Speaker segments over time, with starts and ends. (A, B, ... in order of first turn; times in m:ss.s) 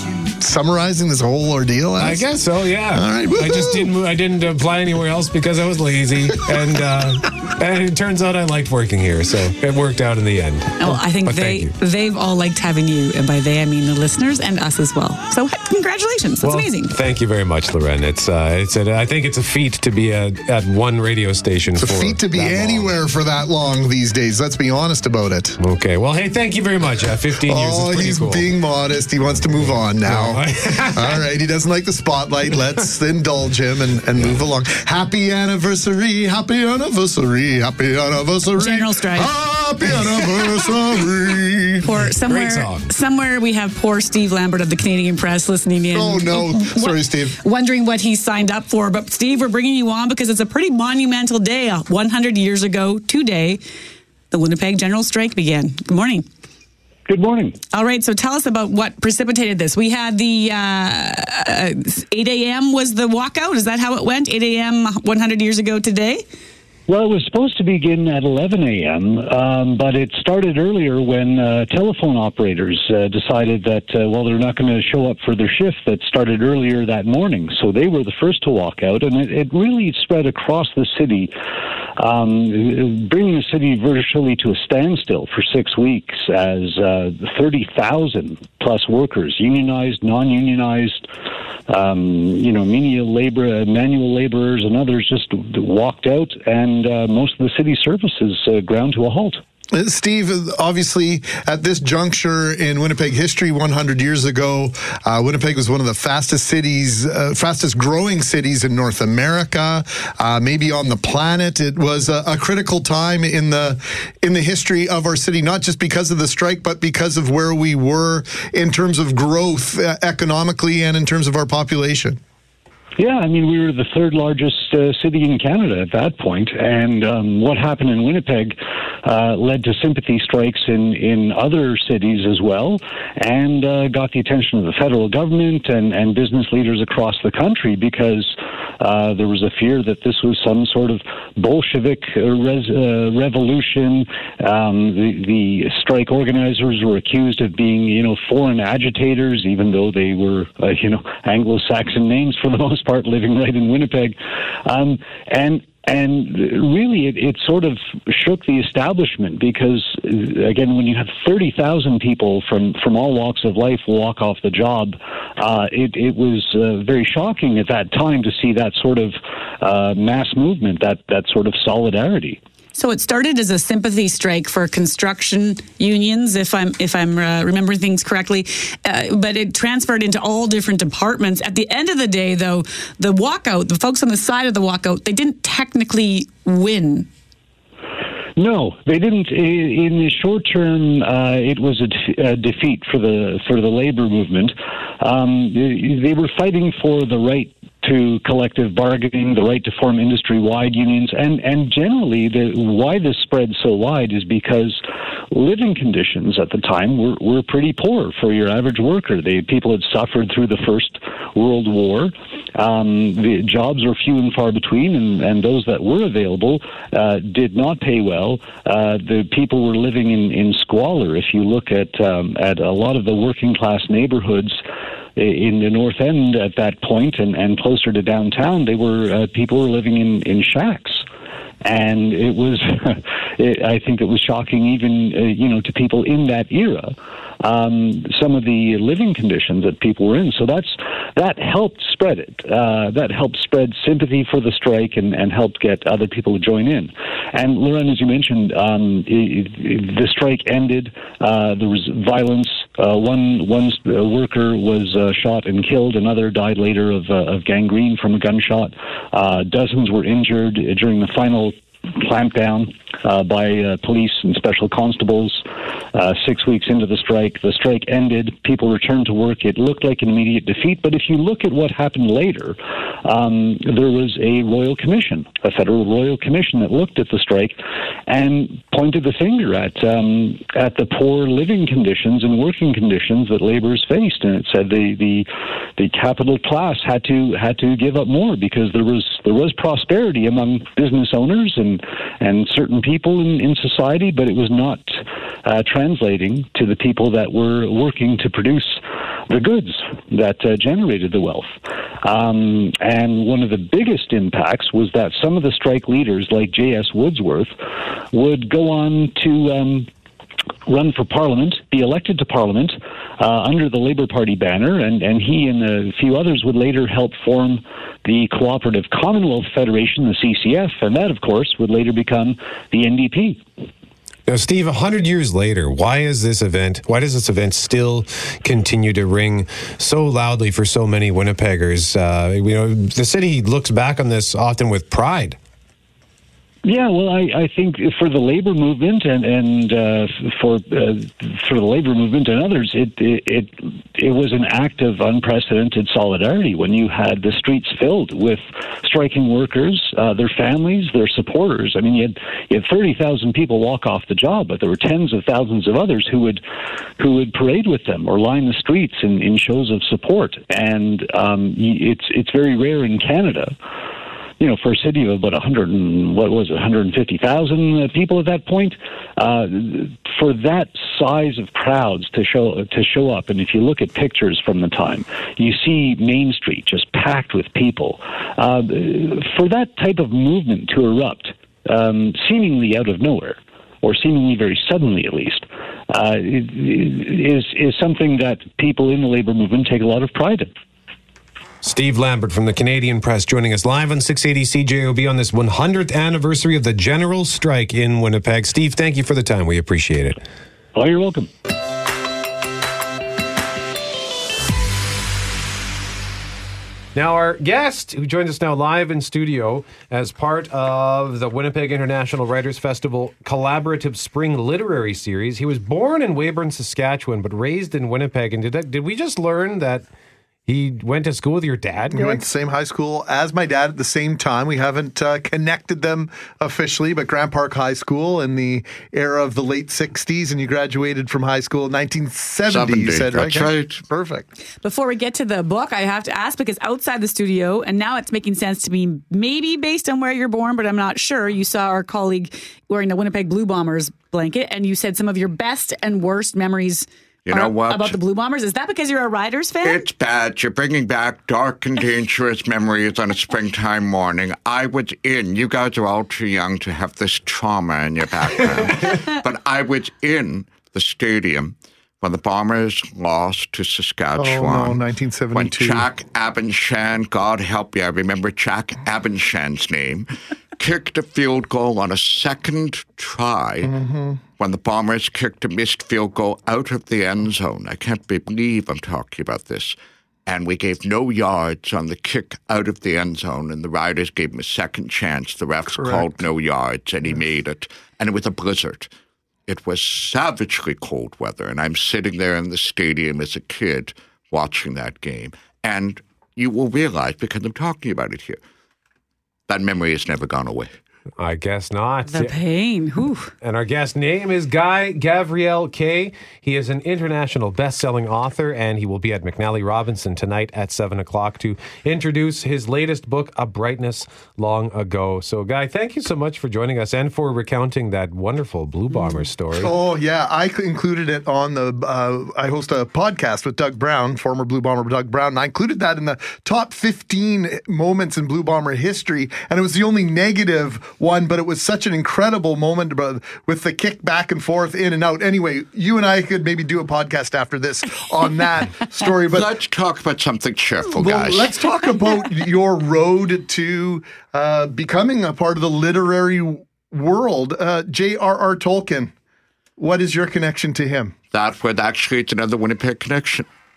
0:00.3-0:02.3 A
0:02.0-0:11.7 B
0:02.9-0:03.9 A
0:10.8-0:16.9 C
0:16.4-0:22.9 B
0:21.8-0:25.6 A
0:25.6-0:28.5 B
0:27.5-0:41.8 A
0:30.0-0:31.2 B
0:38.6-0:39.3 C
0:41.8-0:53.6 C
0:42.3-0:42.9 B
0:45.9-0:47.4 A
0:54.3-0:56.3 C
0:57.1-0:57.6 D
0:57.7-1:06.2 C
1:06.9-1:21.3 D
1:22.0-1:31.1 D
1:31.7-1:39.4 D
1:39.7-2:02.2 A
2:03.0-2:52.4 D
2:52.8-3:07.1 C
3:08.4-3:44.6 D
3:45.2-3:51.0 D
3:51.6-5:09.9 D
5:10.7-5:23.4 D
5:24.3-5:35.4 B
5:36.6-5:56.4 D
5:57.0-6:03.6 D
6:04.4-6:30.5 D
6:31.6-6:40.2 B
6:40.8-6:41.3 D
6:47.0-6:59.9 B
7:00.5-7:02.2 B
7:01.9-7:14.3 A
7:12.5-7:13.8 E
7:14.6-7:29.9 C
7:27.3-7:28.0 E
7:29.6-7:44.8 E
7:44.2-7:45.9 A
7:45.3-7:53.7 E
7:53.6-7:54.2 A
7:54.4-7:59.8 E
8:00.3-8:08.9 E
8:05.7-8:06.3 A
8:09.5-8:18.4 E
8:19.5-8:20.7 E
8:21.2-8:22.4 B
8:22.1-8:23.3 C
8:23.4-8:39.8 B
8:39.5-8:59.6 A
8:59.3-9:01.5 E
9:00.9-9:09.1 A
9:09.8-9:11.1 A
9:11.3-9:13.5 E